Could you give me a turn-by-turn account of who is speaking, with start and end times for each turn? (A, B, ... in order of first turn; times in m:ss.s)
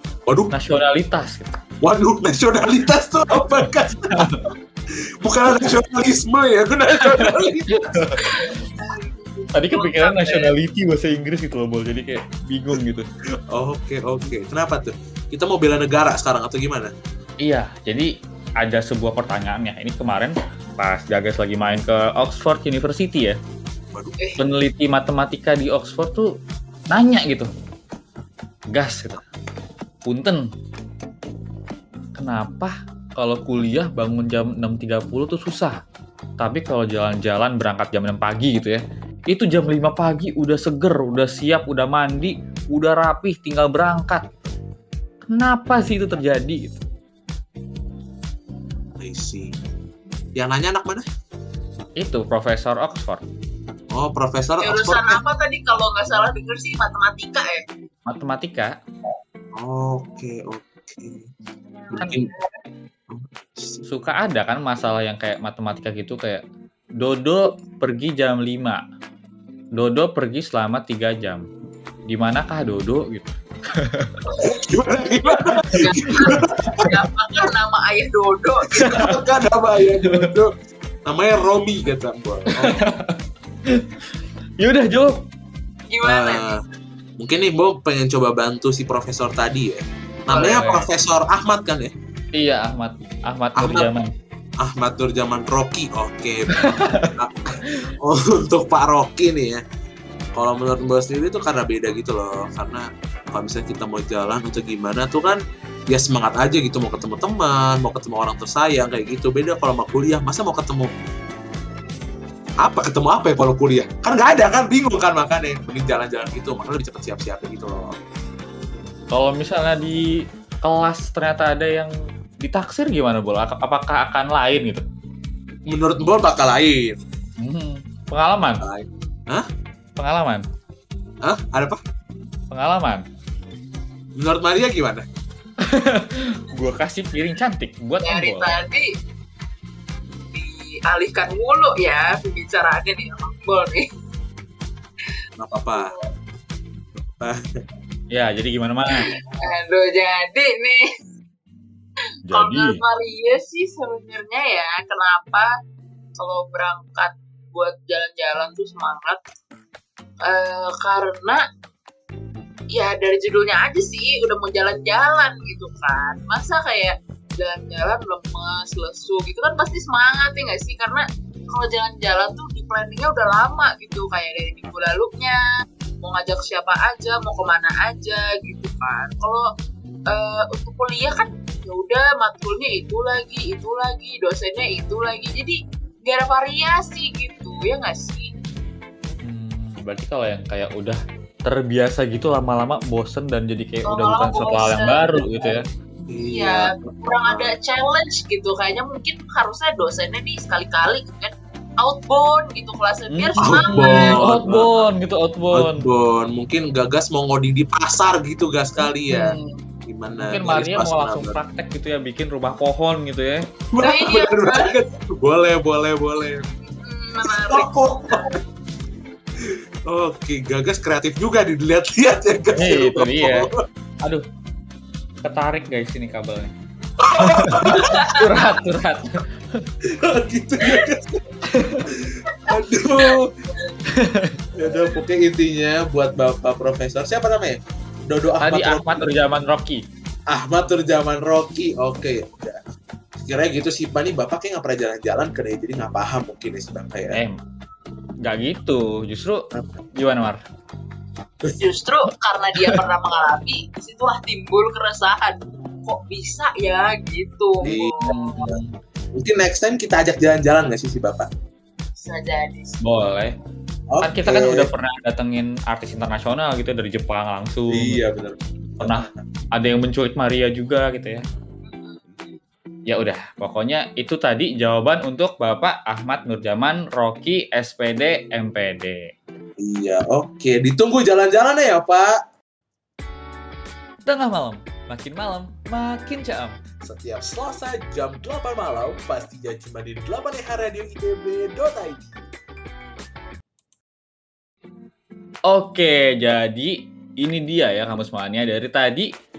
0:00.3-0:00.5 A
0:00.5-0:01.6 B
0:01.8-0:04.4 A
0:03.5-0:04.4 B
0:05.2-0:08.0 A
0:07.0-0:08.6 B
0:08.2-0:10.5 C
0:09.5-0:13.1 B
0:13.5-0:16.9 A
0:17.4-0:18.1 B
0:18.6-0:23.4 B
0:23.9-0:24.2 A
0:24.4-0:26.3 B
0:26.9-0:27.5 B
0:28.7-0:29.2 B
0:30.0-0:30.4 B
0:32.2-0:35.8 B
0:36.4-0:44.3 B
0:45.3-0:46.8 B
0:49.0-0:49.6 A
0:50.4-0:51.1 A
0:52.0-0:53.2 B
0:53.9-0:55.2 A
0:54.6-0:57.6 C
0:58.1-0:58.7 B
0:59.6-1:01.3 A
1:01.9-1:02.3 A
1:01.9-1:02.3 C
1:03.1-1:03.8 A
1:03.9-1:06.4 B
1:07.0-1:08.8 B
1:09.8-1:11.5 B
1:12.1-1:14.2 B
1:14.3-1:14.6 C
1:14.4-1:16.9 A
1:15.4-1:19.0 C
1:15.7-1:16.4 B
1:18.7-1:20.5 A
1:18.8-1:19.2 B
1:21.1-1:22.8 A
1:22.6-1:23.2 B
1:24.6-1:25.2 B
1:25.9-1:26.6 C
1:26.0-1:26.6 A
1:27.2-1:31.9 A
1:30.3-1:30.8 C
1:32.3-1:34.1 B
1:33.6-1:33.9 A
1:34.6-1:39.6 A
1:36.5-1:37.1 B
1:40.3-1:50.9 A
1:52.6-1:58.0 A
1:59.1-2:00.1 B
2:00.6-2:04.8 B
2:05.7-2:07.0 A
2:07.4-2:08.6 B
2:08.6-2:09.5 A
2:10.0-2:10.4 B
2:11.2-2:11.8 A
2:12.5-2:13.0 B
2:14.2-2:15.0 A
2:15.6-2:18.6 B
2:18.0-2:18.9 C
2:20.3-2:23.9 C
2:25.4-2:26.0 A
2:25.8-2:26.0 C
2:27.2-2:27.4 A
2:28.1-2:29.2 B
2:28.9-2:30.8 C
2:32.3-2:32.8 B
2:32.3-2:35.5 C
2:36.2-2:39.2 C
2:40.3-2:41.4 C
2:42.7-2:55.4 C
2:56.0-2:59.4 C
3:00.1-3:08.3 C
3:09.2-3:15.6 B
3:13.9-3:15.6 C
3:16.1-3:17.5 A
3:16.2-3:24.7 C
3:23.1-3:25.8 B
3:23.4-3:24.9 A
3:25.5-3:29.4 A
3:28.8-3:29.4 B
3:29.9-3:31.4 A
3:30.2-3:33.4 B
3:33.7-3:36.5 A
3:33.8-3:34.8 C
3:36.8-3:38.2 C
3:37.2-3:38.4 A
3:39.4-3:43.6 A
3:42.5-3:43.5 B
3:45.2-3:46.5 B
3:47.0-3:48.2 A
3:47.2-3:49.6 B
3:47.7-3:48.3 C
3:49.8-3:51.2 A
3:51.5-3:51.8 B
3:51.9-3:53.3 A
3:52.3-3:52.6 C
3:53.9-3:54.4 B
3:54.6-3:59.1 A
3:58.4-3:59.8 B
4:00.3-4:02.6 A
4:03.2-4:07.2 A
4:07.1-4:07.4 B
4:08.2-4:09.4 B
4:10.0-4:10.4 B
4:11.5-4:18.5 C
4:17.6-4:18.6 A
4:18.0-4:18.7 B
4:19.2-4:21.3 A
4:22.0-4:22.8 C
4:22.8-4:23.3 B
4:23.9-4:24.7 A
4:24.0-4:28.0 B
4:27.7-4:29.2 A
4:28.8-4:31.2 B
4:31.6-4:32.4 C
4:32.9-4:39.1 B
4:39.6-4:42.2 A
4:44.1-4:46.6 B
4:46.8-4:52.2 A
4:55.5-4:59.1 B